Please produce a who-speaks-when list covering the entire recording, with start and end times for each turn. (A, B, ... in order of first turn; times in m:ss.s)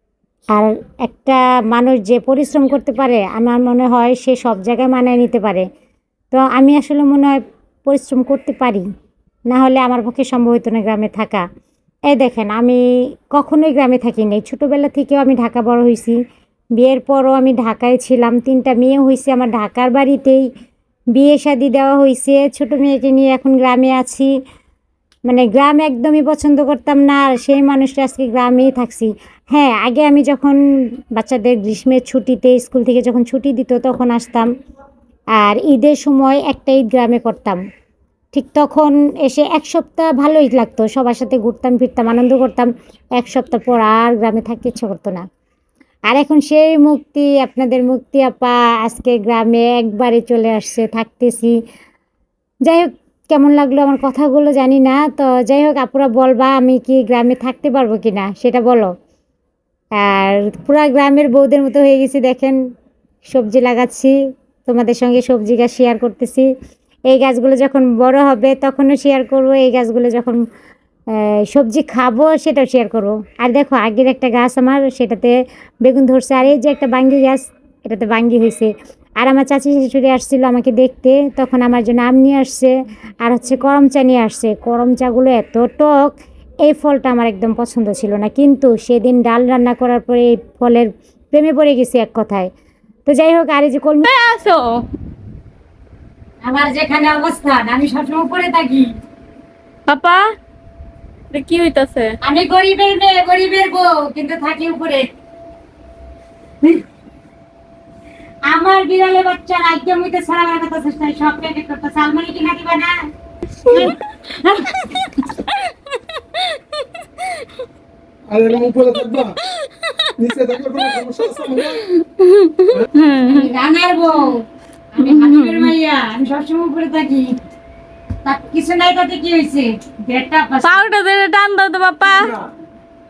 0:00.5-0:05.7 A
0:06.3-0:08.9 A
0:09.5-0:11.4 A
0:12.1-0:12.8 A
0:13.3-0:16.2 A
0:16.8-0:20.4 A
0:21.1-0:24.3 A
0:25.3-0:30.6 A
0:31.2-0:34.5 A
0:35.4-0:37.6 A
0:38.3-0:45.3 A
0:46.1-0:51.6 A
0:52.7-0:58.9 A
1:00.0-1:02.6 A
1:03.3-1:04.1 A
1:04.6-1:06.5 A
1:07.1-1:10.4 A
1:11.1-1:22.7 A
1:23.2-1:26.1 A
1:26.6-1:32.5 A
1:33.1-1:34.1 A
1:34.0-1:34.8 B
1:36.4-1:38.9 A
1:39.9-1:40.3 B
1:41.3-1:42.1 B
1:42.2-1:45.0 A
1:48.5-1:52.9 A
1:53.6-1:55.0 A
1:54.8-1:55.1 B
1:58.3-1:59.4 C
2:00.2-2:01.9 C
2:01.8-2:03.5 B
2:03.2-2:07.4 A
2:05.0-2:05.7 B
2:08.2-2:10.8 A
2:10.6-2:12.3 B
2:12.1-2:12.5 C